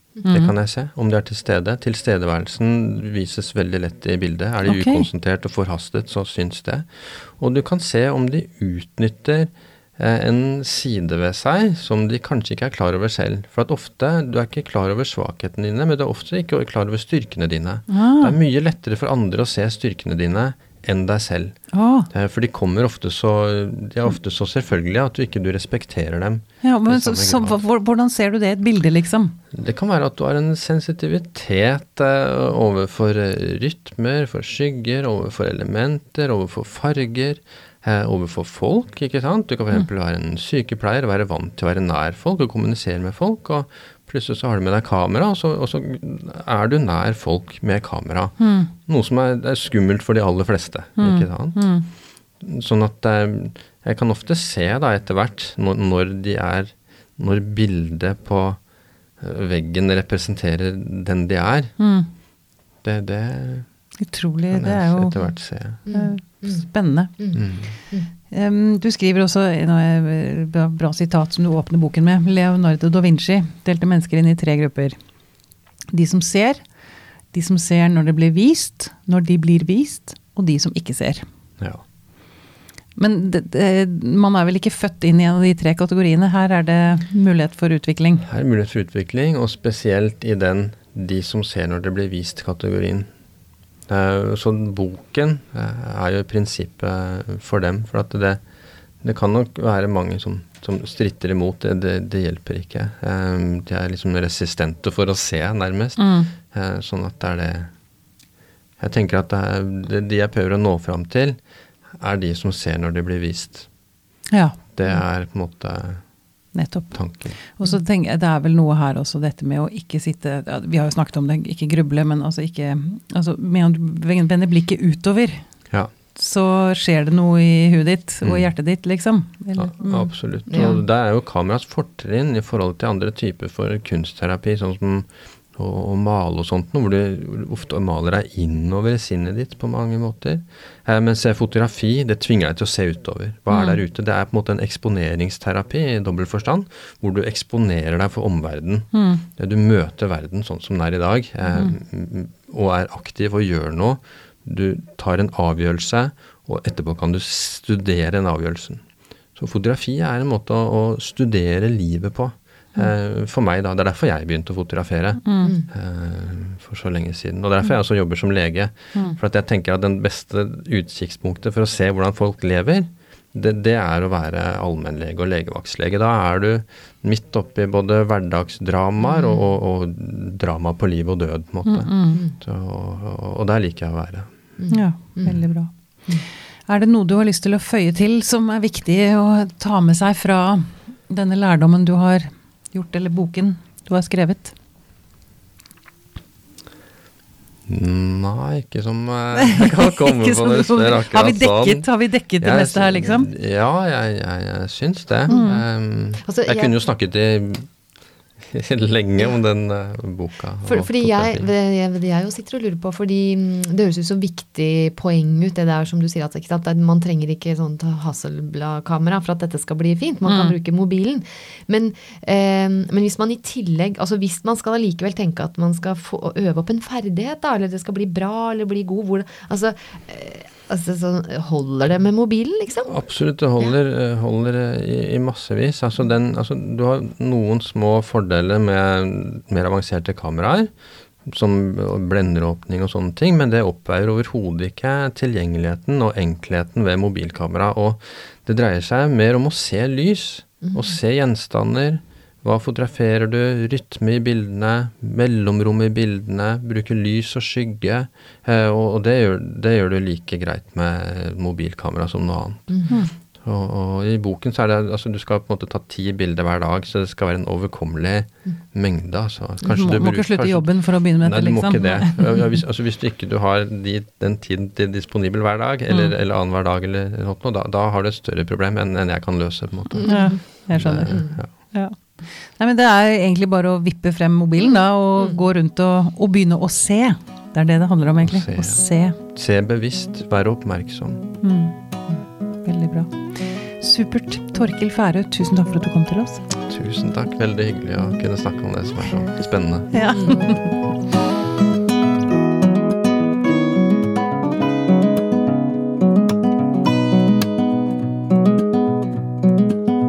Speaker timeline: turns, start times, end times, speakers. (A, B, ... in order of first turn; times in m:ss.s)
0:00.3-0:00.5 A
0:00.3-0:21.6 B
0:04.6-0:05.0 A
0:17.9-0:18.4 A
0:21.7-0:22.1 A
0:22.1-0:27.6 B
0:26.6-0:29.4 A
0:29.5-0:51.7 B
0:48.4-0:48.7 A
0:51.0-0:51.9 A
0:52.4-0:58.6 B
0:59.2-1:01.7 B
1:01.8-1:02.1 A
1:02.8-1:03.7 B
1:04.0-1:05.2 A
1:04.5-1:05.8 B
1:05.8-1:07.3 A
1:05.8-1:06.6 C
1:07.3-1:07.8 B
1:08.3-1:15.0 A
1:15.9-1:16.6 A
1:17.3-1:21.2 A
1:23.0-1:28.2 A
1:28.2-1:33.1 B
1:33.9-1:38.4 B
1:39.0-1:47.7 B
1:46.0-1:46.3 A
1:48.8-1:51.4 B
1:51.9-1:53.7 B
1:54.3-1:54.6 A
1:54.7-1:56.0 B
1:56.5-2:05.5 A
1:56.9-1:57.4 B
2:06.1-2:10.8 A
2:08.2-2:08.5 B
2:09.6-2:38.8 B
2:10.5-2:10.8 C
2:23.5-2:23.8 A
2:28.9-2:29.2 A
2:39.3-3:04.3 B
2:45.2-2:45.5 A
2:59.0-2:59.4 C
3:01.6-3:02.2 A
3:04.6-3:05.4 C
3:04.7-3:06.1 A
3:06.7-3:14.5 A
3:17.7-3:21.9 B
3:19.3-3:23.3 A
3:22.4-3:27.7 B
3:25.3-3:25.6 A
3:26.2-3:26.7 C
3:28.4-3:31.5 B
3:30.6-3:53.0 C
3:40.2-3:40.5 A
3:52.9-4:00.7 B
4:01.2-4:41.5 B
4:22.7-4:23.0 C
4:29.6-4:32.5 A
4:40.0-4:40.4 C
4:40.0-4:49.2 A
4:41.1-4:41.4 C
4:48.2-4:51.2 B
4:51.4-4:51.7 A
4:52.6-4:56.4 A
4:56.7-5:00.0 B
4:59.9-5:00.7 A